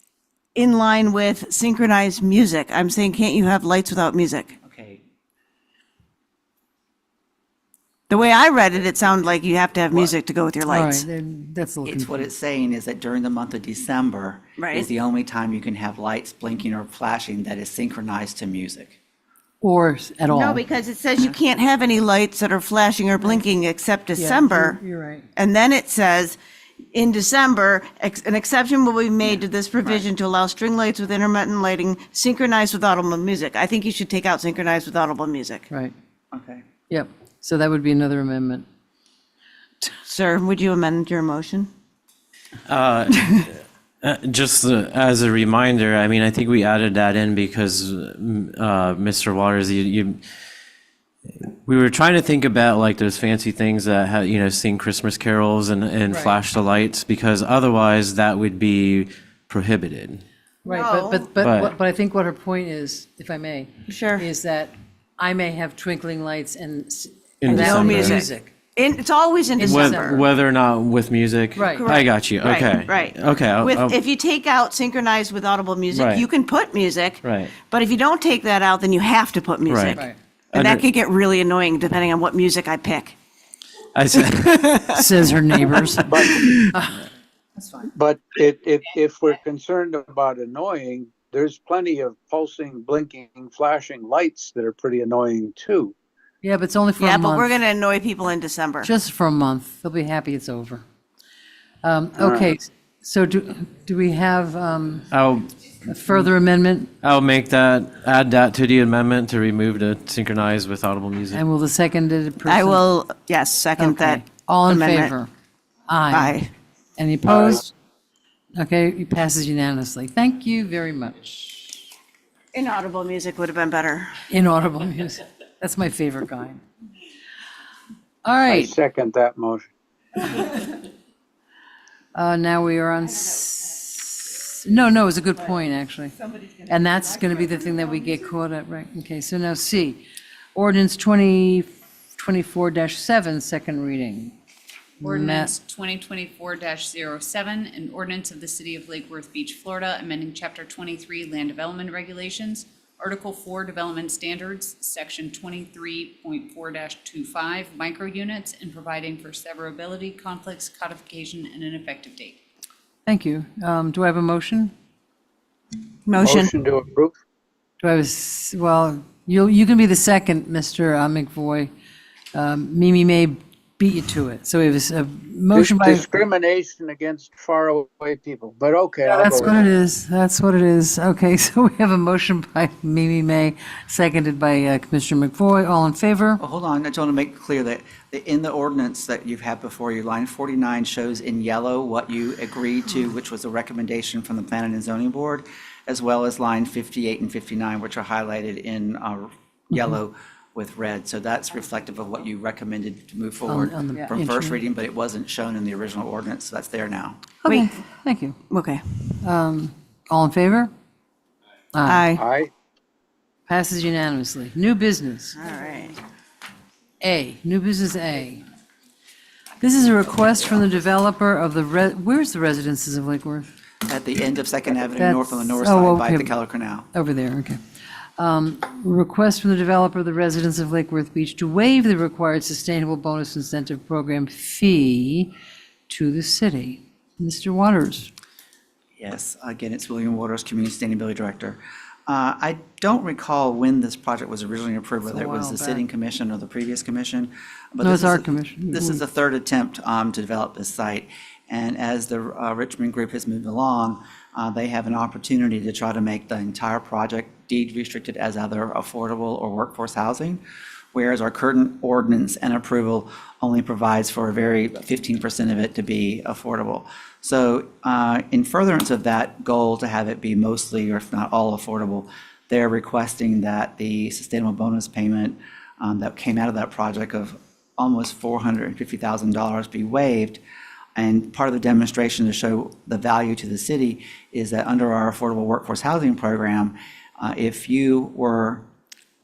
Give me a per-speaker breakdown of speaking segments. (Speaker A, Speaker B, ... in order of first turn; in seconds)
Speaker A: 0.5-4.5, 8.1-11.1, 14.6-14.9, 20.3-24.8, 25.3-26.4, 26.9-35.7, 39.9-41.7, 60.7-61.3, 63.9-64.3, 67.5-70.2, 71.7-83.2, 85.6-86.6, 97.0-98.9, 112.5-115.1, 116.1-116.5, 122.5-124.2, 166.1-166.5, 207.4-207.8, 208.5-208.8, 211.8-212.2, 215.3-216.0
Speaker B: 4.6-5.0, 11.8-19.0, 29.2-30.1, 36.3-36.7, 186.4-207.2, 223.8-226.9, 239.0-260.4, 260.9-280.4, 280.9-288.6
Speaker C: 10.7-12.3, 19.6-20.6, 24.1-25.2, 36.9-38.6, 56.1-56.4, 60.6-68.5, 69.6-70.2, 71.5-71.8, 84.9-87.0, 96.4-97.5, 98.8-100.8, 101.8-105.1, 105.9-106.9, 111.3-112.8, 113.8-115.3, 115.9-116.4, 117.0-117.7, 118.6-121.8, 124.3-126.6, 128.2-128.7, 132.1-136.1, 136.6-140.0, 140.5-144.3, 145.0-145.5, 163.1-164.7, 167.8-171.7, 172.3-176.0, 179.0-186.4, 203.4-204.6, 207.4-208.4, 209.2-210.7, 211.7-212.1, 213.5-215.4, 217.0-218.4, 219.6-223.5, 224.9-226.4, 226.9-227.6, 228.2-235.3, 235.9-238.1, 245.0-245.8, 247.8-249.0
Speaker D: 42.7-50.2, 51.4-60.2, 61.4-61.7, 67.4-68.2, 69.6-74.0, 75.9-76.3, 77.2-77.5, 79.7-80.0, 80.5-80.8, 83.9-84.9, 105.1-105.5, 107.0-111.4
Speaker E: 86.1-86.5, 87.9-95.9, 102.2-102.5, 128.5-129.7, 166.2-167.1, 175.5-179.7, 212.2-212.5
Speaker F: 145.0-162.4